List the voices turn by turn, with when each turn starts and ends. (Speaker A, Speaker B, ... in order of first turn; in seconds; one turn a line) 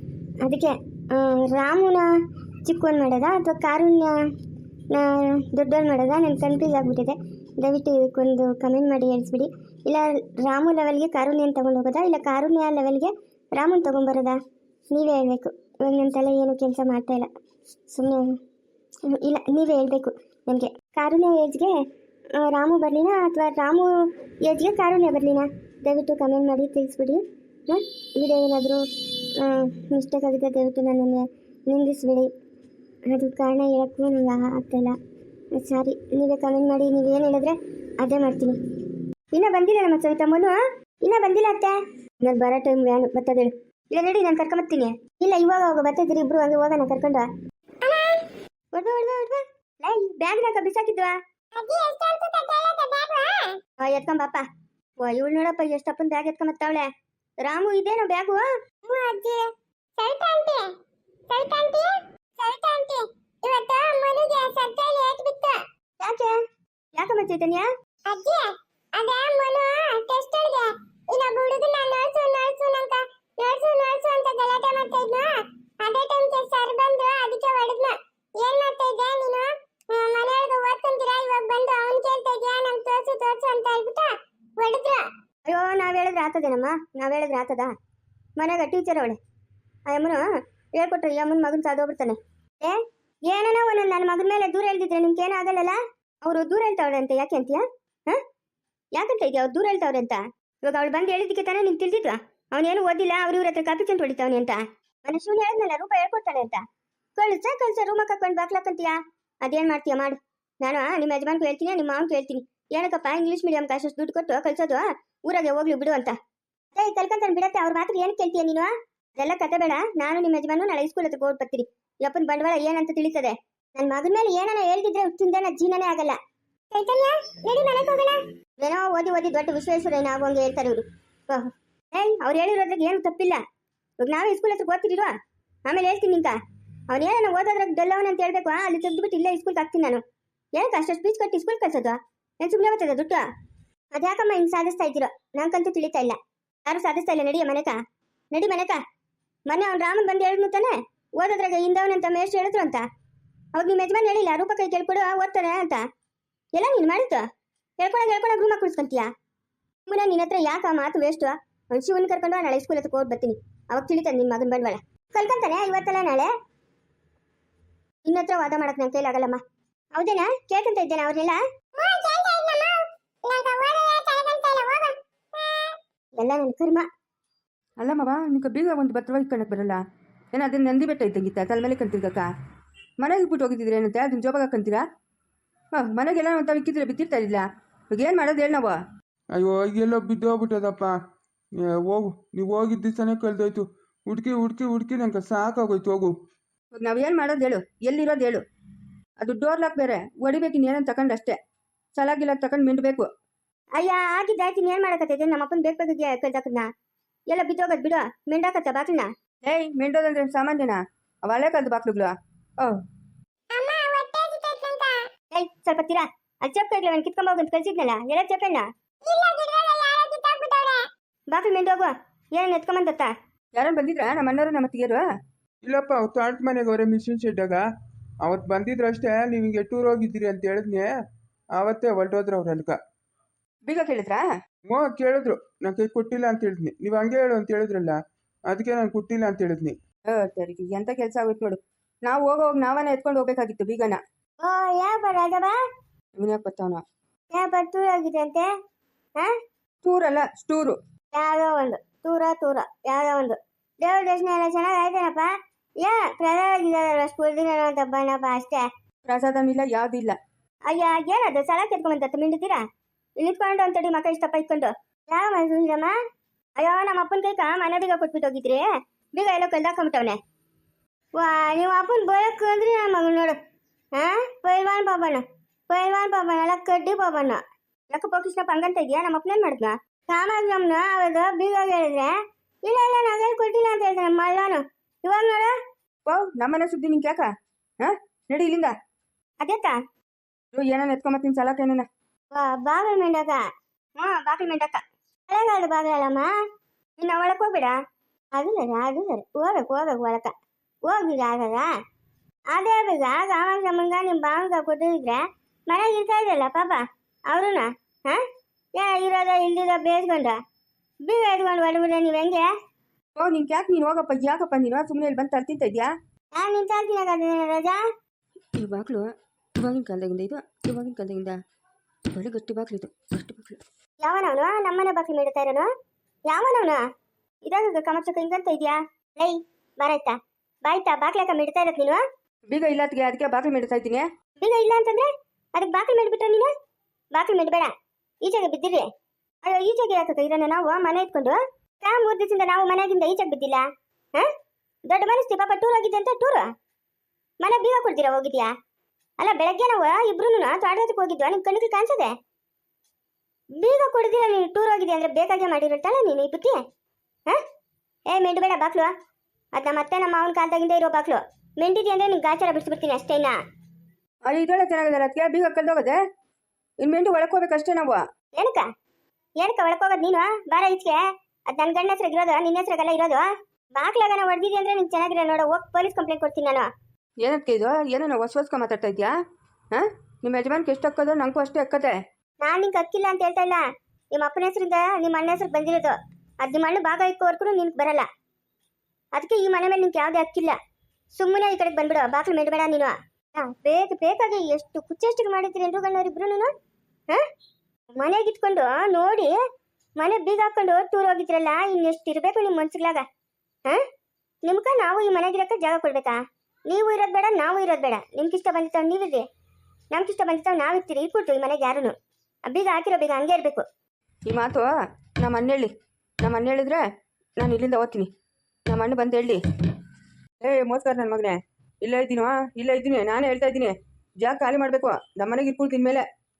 Speaker A: 0.4-2.1
Speaker A: 2.6-4.2
Speaker A: 4.9-14.4
Speaker A: 14.9-17.3
Speaker A: 17.9-18.3
Speaker A: 19.1-21.7
Speaker A: 22.4-28.9
Speaker A: 29.4-32.3
Speaker A: 33.1-35.0
Speaker A: 35.5-38.6
Speaker A: 39.3-47.3
Speaker B: 47.8-48.2
Speaker A: 48.7-51.1
Speaker B: 51.5-53.6
Speaker A: 53.8-54.4
Speaker A: 55.0-56.9
Speaker A: 57.4-58.4
Speaker B: 58.9-60.7
Speaker B: 61.3-65.6
Speaker A: 66.0-66.3
Speaker A: 66.9-67.7
Speaker B: 68.1-85.1
Speaker A: 85.5-87.7
Speaker A: 88.4-89.2
Speaker A: 89.9-90.2
Speaker A: 90.8-98.2
Speaker A: 98.9-106.6
Speaker A: 107.2-116.2
Speaker A: 116.7-126.2
Speaker B: 126.7-128.1
Speaker A: 127.7-128.0
Speaker A: 128.6-133.4
Speaker A: 134.0-135.1
Speaker A: 135.7-136.3
Speaker A: 136.9-140.0
Speaker A: 140.5-143.2
Speaker A: 143.9-147.8
Speaker A: 148.3-148.8
Speaker A: 149.5-152.8
Speaker A: 153.5-155.8
Speaker A: 156.5-157.2
Speaker A: 157.8-159.1
Speaker A: 159.9-166.3
Speaker A: 168.1-169.4
Speaker A: 169.9-171.4
Speaker B: 171.8-175.8
Speaker A: 176.2-176.8
Speaker C: 177.8-179.8
Speaker C: 180.3-182.3
Speaker C: 183.0-184.8
Speaker C: 185.7-188.8
Speaker D: 189.3-191.0
Speaker D: 191.6-196.1
Speaker C: 196.7-198.4
Speaker C: 199.2-201.4
Speaker C: 201.9-203.1
Speaker A: 203.8-206.7
Speaker A: 207.3-209.1
Speaker C: 209.4-212.8
Speaker B: 213.5-215.1
Speaker A: 215.3-218.7
Speaker B: 219.0-220.9
Speaker A: 221.3-223.1
Speaker C: 223.5-225.0
Speaker D: 225.6-227.6
Speaker D: 228.2-230.9
Speaker D: 231.6-232.8
Speaker C: 233.6-234.2
Speaker D: 234.7-239.8
Speaker C: 240.1-244.0
Speaker A: 244.4-245.5
Speaker C: 246.2-246.8
Speaker A: 247.3-248.5
Speaker C: 249.8-250.8
Speaker A: 251.1-258.6
Speaker C: 259.0-260.2
Speaker A: 260.7-262.6
Speaker A: 263.2-265.9
Speaker A: 266.6-270.2
Speaker A: 271.2-273.4
Speaker A: 273.9-285.5
Speaker C: 286.1-287.3
Speaker C: 287.8-288.7
Speaker A: 289.4-289.8
Speaker C: 290.5-291.9
Speaker A: 292.3-293.4
Speaker A: 294.0-296.3
Speaker A: 297.0-297.8
Speaker A: 298.3-300.3
Speaker A: 300.9-301.7
Speaker A: 302.5-308.2
Speaker A: 308.8-310.4
Speaker A: 311.0-312.5
Speaker C: 313.1-315.9
Speaker A: 316.3-317.8
Speaker C: 318.6-321.4
Speaker C: 322.1-323.6
Speaker A: 324.0-325.7
Speaker A: 326.3-326.8
Speaker A: 327.4-332.0
Speaker C: 332.5-334.1
Speaker A: 334.4-336.5
Speaker A: 337.1-337.7
Speaker A: 338.2-338.9
Speaker A: 339.4-343.6
Speaker A: 344.9-346.5
Speaker A: 347.4-348.5
Speaker A: 349.2-352.1
Speaker A: 353.6-356.6
Speaker A: 358.1-358.9
Speaker A: 359.5-363.4
Speaker C: 364.2-366.0
Speaker C: 366.8-368.0
Speaker A: 368.3-368.6
Speaker A: 369.4-376.6
Speaker C: 377.2-379.1
Speaker C: 379.7-382.0
Speaker A: 382.4-388.1
Speaker A: 389.1-390.6
Speaker A: 391.1-396.5
Speaker A: 398.0-399.4
Speaker A: 400.0-403.0
Speaker A: 404.4-406.2
Speaker A: 406.7-409.2
Speaker A: 409.9-411.9
Speaker A: 412.4-413.6
Speaker C: 414.3-414.7
Speaker C: 415.2-416.8
Speaker C: 417.4-418.1
Speaker C: 418.7-419.4
Speaker C: 420.4-426.0